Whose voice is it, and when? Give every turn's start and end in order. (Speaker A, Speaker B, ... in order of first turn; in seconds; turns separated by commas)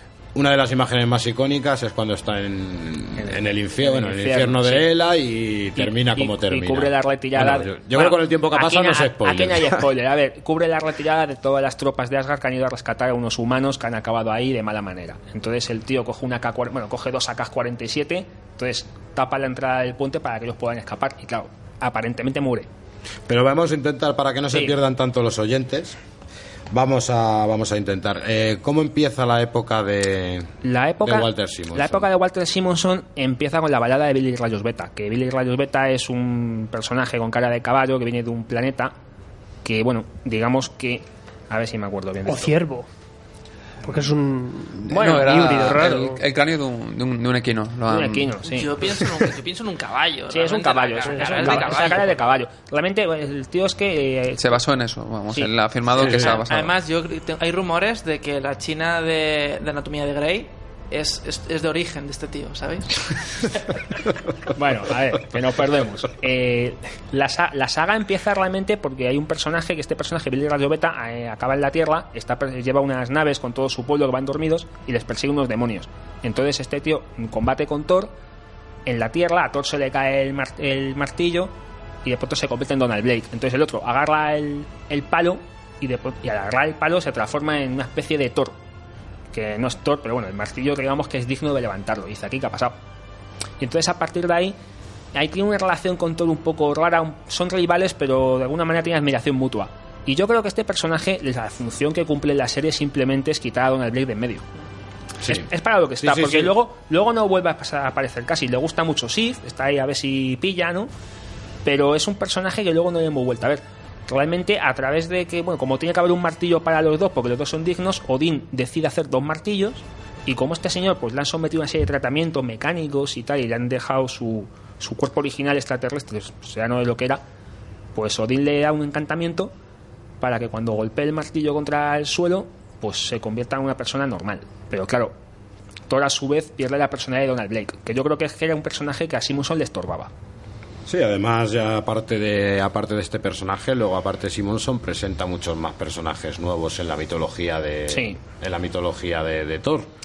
Speaker A: 0.3-9.8, Speaker B: 3.2-4.9, Speaker B: 5.8-22.7, Speaker A: 23.3-26.0, Speaker B: 24.5-24.8, Speaker A: 26.7-32.1, Speaker B: 30.6-38.9, Speaker B: 39.6-42.6, Speaker C: 42.2-42.9, Speaker C: 43.9-46.2, Speaker D: 44.9-48.3, Speaker B: 44.9-45.9, Speaker B: 47.9-48.7, Speaker E: 48.5-52.2, Speaker B: 50.3-54.6, Speaker D: 54.4-56.7, Speaker A: 56.0-56.3, Speaker E: 56.0-63.6, Speaker B: 64.5-78.1, Speaker B: 78.8-81.5, Speaker B: 82.0-88.6, Speaker B: 89.3-92.8, Speaker B: 93.6-94.5, Speaker B: 95.1-104.4, Speaker A: 105.2-105.5, Speaker B: 105.2-110.9, Speaker A: 106.0-106.5, Speaker B: 111.6-127.2, Speaker B: 127.9-129.5, Speaker B: 130.2-135.1, Speaker B: 135.9-140.1, Speaker A: 140.9-149.9, Speaker B: 147.9-148.2